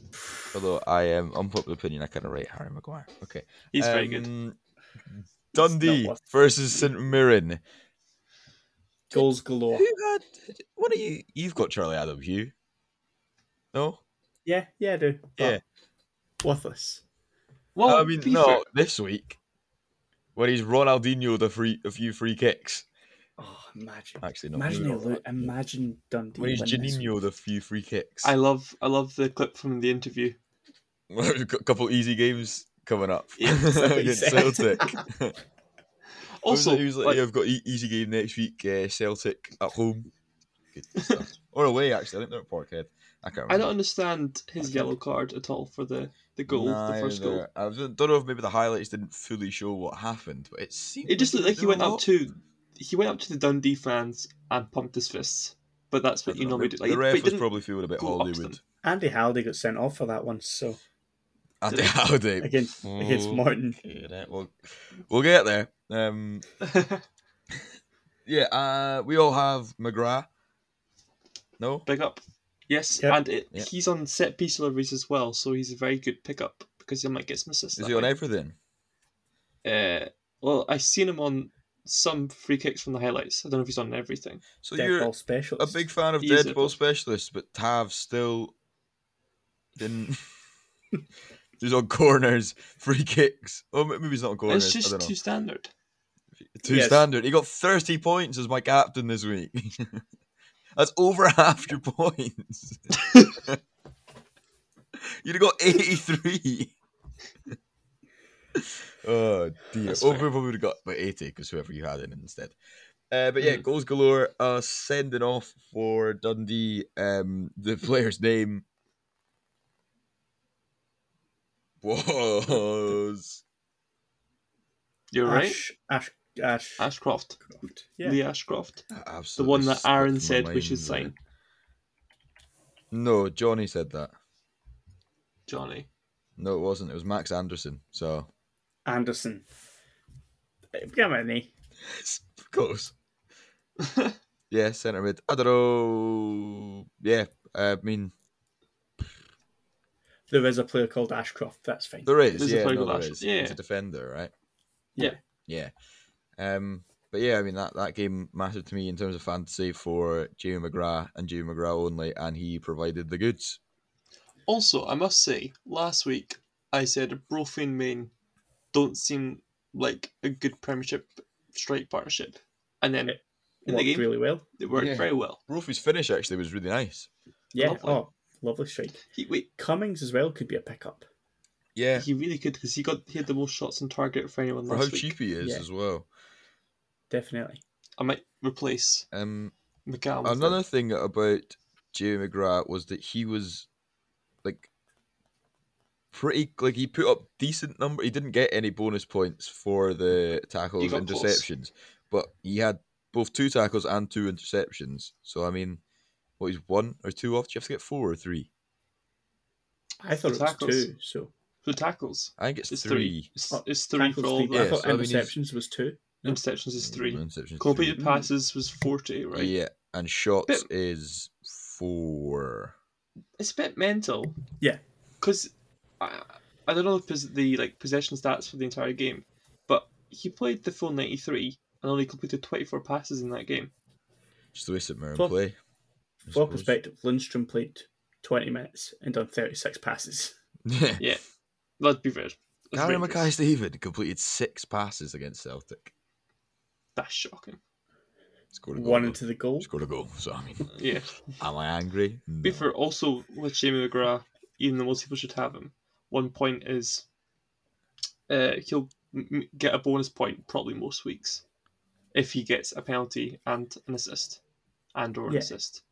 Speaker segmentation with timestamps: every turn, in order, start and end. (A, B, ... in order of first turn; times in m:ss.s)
0:00.5-0:04.6 A
0:03.7-0:04.3 B
0:05.1-0:07.6 A
0:05.5-0:06.2 C
0:09.1-0:09.9 C
0:09.1-0:12.5 A
0:13.7-0:14.0 A
0:14.4-0:15.6 C
0:16.4-0:17.0 C
0:17.7-0:18.6 B
0:17.8-0:19.4 A
0:20.4-0:22.8 A
0:23.4-0:27.1 C
0:24.2-0:25.5 A
0:26.4-0:28.3 A
0:28.2-0:30.4 B
0:31.1-0:35.4 A
0:33.4-0:33.8 B
0:33.6-0:35.0 C
0:36.4-0:37.2 B
0:36.4-0:40.1 A
0:40.7-0:43.7 A
0:43.5-0:47.4 B
0:44.6-0:44.9 C
0:46.5-0:52.0 A
0:51.0-0:58.6 B
0:56.3-0:58.6 A
0:58.8-1:00.8 C
1:01.6-1:06.4 A
1:02.4-1:03.8 C
1:06.6-1:07.0 B
1:08.2-1:10.3 A
1:11.6-1:11.8 A
1:11.8-1:18.1 B
1:17.8-1:18.5 A
1:19.6-1:24.4 B
1:24.6-1:28.5 A
1:24.8-1:25.8 C
1:26.2-1:26.8 B
1:29.8-1:30.2 A
1:31.6-1:35.1 A
1:34.5-1:35.7 B
1:36.5-1:40.0 A
1:36.6-1:37.0 C
1:40.7-1:43.6 A
1:45.0-1:46.7 A
1:48.5-1:52.5 A
1:49.8-1:50.3 B
1:53.1-1:58.6 A
2:01.8-2:03.4 A
2:05.1-2:05.6 B
2:05.2-2:06.9 C
2:06.8-2:07.4 B
2:07.4-2:08.2 C
2:08.0-2:08.8 B
2:08.9-2:11.1 A
2:09.4-2:11.1 B
2:12.9-2:14.1 A
2:15.5-2:15.9 B
2:16.4-2:18.3 A
2:18.8-2:19.4 C
2:20.7-2:21.5 C
2:21.8-2:22.9 A
2:23.8-2:24.1 B
2:24.5-2:28.1 A
2:30.3-2:32.1 C
2:32.0-2:34.3 A
2:32.4-2:33.6 B
2:35.5-2:35.7 A
2:36.4-2:43.6 A
2:44.5-2:48.1 B
2:48.7-2:55.4 B
2:53.1-2:54.4 C
2:54.7-2:57.1 A
2:57.5-2:59.0 C
2:57.6-2:58.0 B
2:59.1-2:59.5 B
2:59.6-3:01.1 C
3:01.8-3:02.1 A
3:02.0-3:05.1 B
3:04.7-3:06.1 A
3:05.4-3:05.6 C
3:07.1-3:07.6 C
3:08.0-3:09.0 B
3:09.1-3:09.5 A
3:09.8-3:10.6 B
3:10.2-3:13.7 A
3:14.4-3:14.7 A
3:16.1-3:25.8 A
3:20.8-3:21.4 B
3:26.4-3:28.5 A
3:30.0-3:31.3 C
3:30.1-3:30.9 B
3:31.6-3:34.8 B
3:32.4-3:33.3 A
3:33.5-3:36.4 C
3:34.5-3:35.3 A
3:36.2-3:39.5 B
3:36.8-3:38.0 A
3:38.0-3:38.3 C
3:39.3-3:42.7 A
3:43.4-3:44.4 B
3:45.2-3:53.7 B
3:54.5-3:55.6 A
3:56.3-3:56.7 A
3:56.3-4:00.3 C
4:00.6-4:01.1 A
4:01.8-4:03.3 B
4:02.7-4:05.9 A
4:07.0-4:07.6 B
4:08.5-4:10.7 A
4:08.7-4:09.7 C
4:10.7-4:11.1 B
4:11.4-4:12.7 A
4:12.4-4:17.0 B
4:18.3-4:21.4 B
4:22.1-4:24.4 B
4:24.9-4:25.8 B
4:25.3-4:25.5 C